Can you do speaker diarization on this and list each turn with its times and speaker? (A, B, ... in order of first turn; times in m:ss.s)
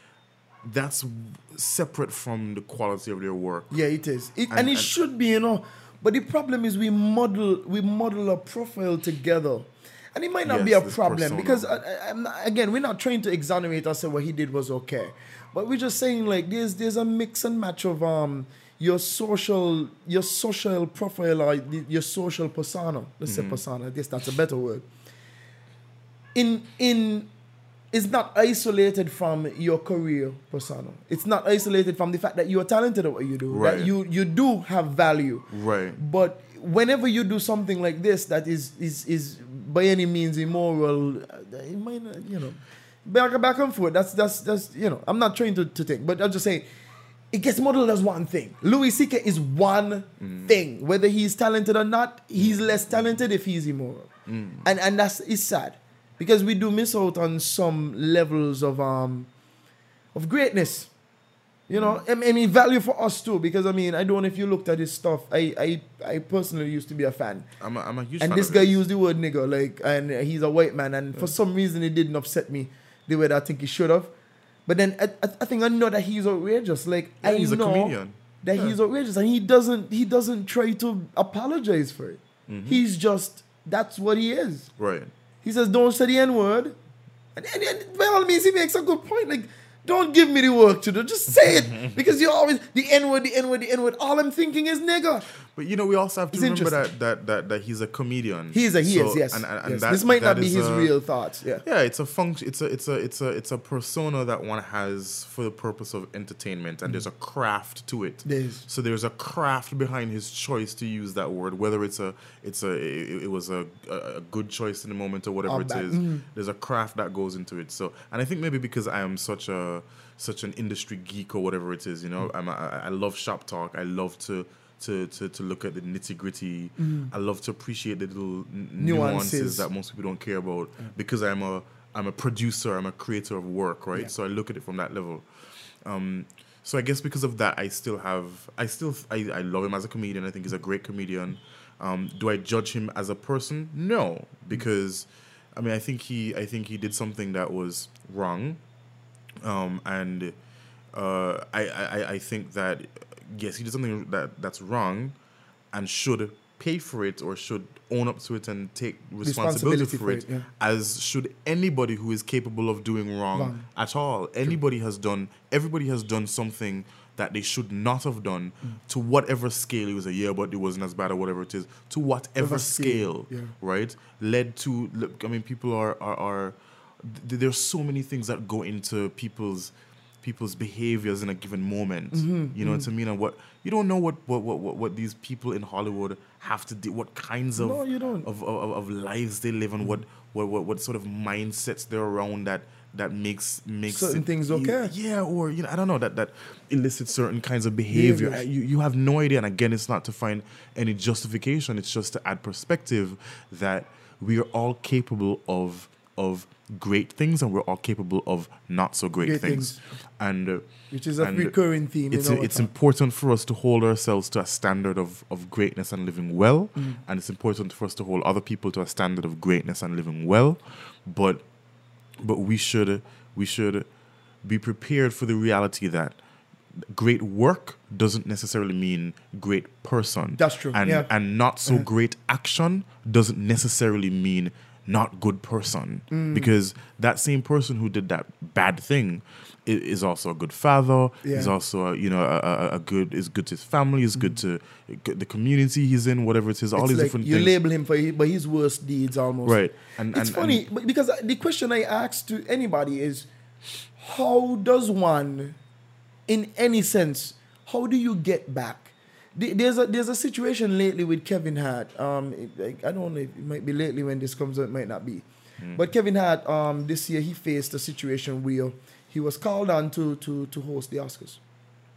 0:00.6-0:03.8 A
0:03.7-0:24.9 B
0:04.5-0:04.9 A
0:10.4-0:11.8 A
0:23.3-0:23.6 A
0:26.3-0:27.3 B
0:27.9-0:46.7 B
0:33.5-0:33.9 A
0:35.5-0:36.0 A
0:47.3-0:54.1 B
0:50.2-0:50.5 A
0:52.4-0:53.2 A
0:54.3-0:54.7 A
0:54.6-0:59.3 B
1:00.1-1:00.9 B
1:01.7-1:07.5 B
1:01.7-1:02.0 A
1:07.6-1:08.8 A
1:08.2-1:14.1 B
1:14.7-1:24.7 B
1:17.2-1:18.8 A
1:22.5-1:22.8 A
1:24.8-1:25.1 A
1:25.4-1:26.8 B
1:27.4-1:35.3 B
1:31.6-1:32.0 A
1:35.5-1:40.9 A
1:36.3-1:36.8 B
1:38.5-1:41.6 B
1:41.6-2:15.3 A
1:48.2-1:48.7 B
1:55.5-1:56.3 B
2:06.8-2:07.1 B
2:08.8-2:09.7 B
2:15.8-2:28.6 A
2:29.4-2:30.4 A
2:30.9-2:35.2 A
2:35.7-3:41.5 A
2:39.2-2:40.5 B
2:43.3-2:43.7 B
2:52.4-2:53.5 B
3:02.1-3:02.9 B
3:07.6-3:08.3 B
3:13.9-3:15.0 B
3:17.9-3:18.4 B
3:29.2-3:29.8 B
3:30.9-3:32.7 B
3:42.2-3:43.9 A
3:44.4-3:46.2 A
3:46.8-4:07.5 A
3:50.4-3:51.1 B
3:56.1-3:56.5 B
4:01.2-4:01.5 B
4:06.8-4:09.6 B
4:09.4-4:10.7 A
4:10.1-4:13.3 B
4:14.0-4:15.6 B
4:16.3-4:31.4 B
4:25.6-4:25.9 A